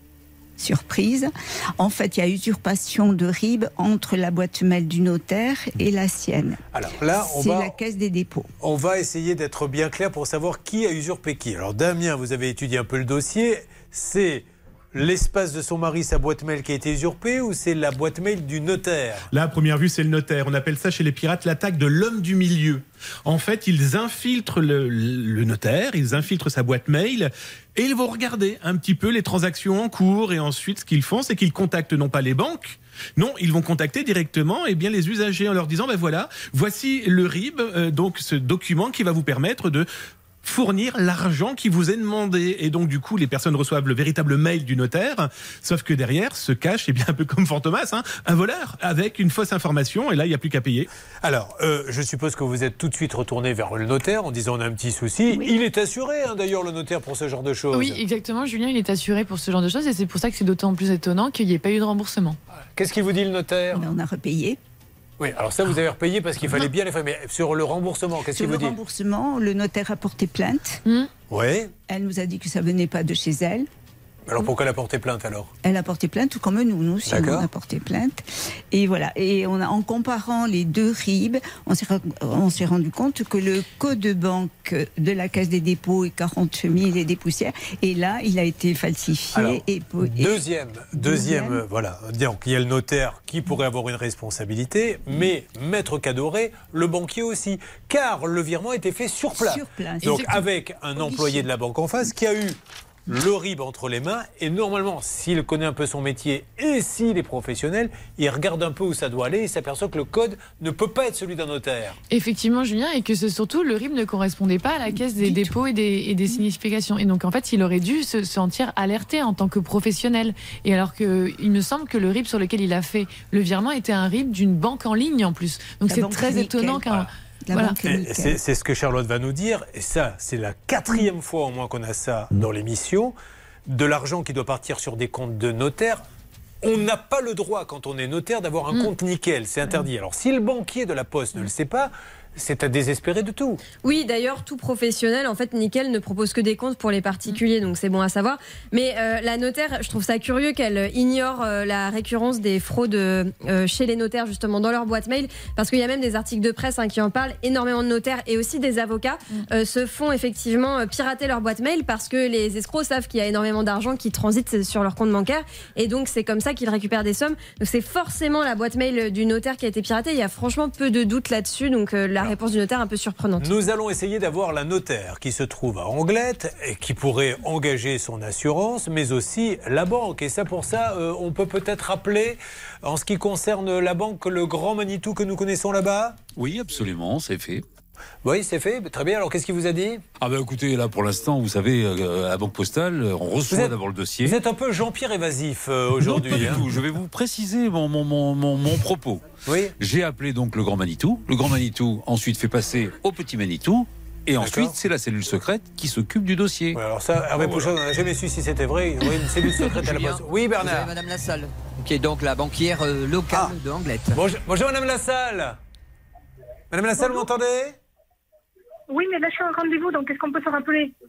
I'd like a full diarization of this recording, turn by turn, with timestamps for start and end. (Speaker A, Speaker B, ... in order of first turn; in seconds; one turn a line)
Speaker A: 0.6-6.6
Speaker B: 6.7-7.8
Speaker A: 7.2-8.5
Speaker B: 8.6-19.3
Speaker C: 19.3-39.9
Speaker C: 40.4-50.9
Speaker B: 51.2-58.0
Speaker A: 55.3-55.5
Speaker D: 57.7-62.4
Speaker B: 62.8-63.9
Speaker A: 63.7-64.6
Speaker B: 65.2-68.8
Speaker A: 68.3-70.8
Speaker B: 71.3-71.7
Speaker A: 71.9-73.7
Speaker B: 74.3-75.5
Speaker A: 75.6-90.4
Speaker B: 77.1-77.5
Speaker B: 89.3-89.6
Speaker B: 90.2-112.0
Speaker A: 90.9-91.6
Speaker A: 99.3-101.5
Speaker D: 112.1-127.8
Speaker A: 115.2-115.5
Speaker A: 125.9-128.4
Speaker B: 127.8-133.2
Speaker B: 133.7-136.0
Speaker B: 136.6-143.6
Speaker E: 143.8-173.5
Speaker B: 173.4-186.2
Speaker F: 186.4-187.6
Speaker B: 188.2-190.0
Speaker F: 190.2-194.4
Speaker B: 193.5-196.7
Speaker F: 196.0-199.2
Speaker B: 199.5-199.7
Speaker F: 199.8-206.8
Speaker B: 204.4-204.8
Speaker B: 206.8-210.9
Speaker G: 209.6-214.2
Speaker B: 214.1-215.6
Speaker B: 216.7-217.8
Speaker H: 218.9-220.9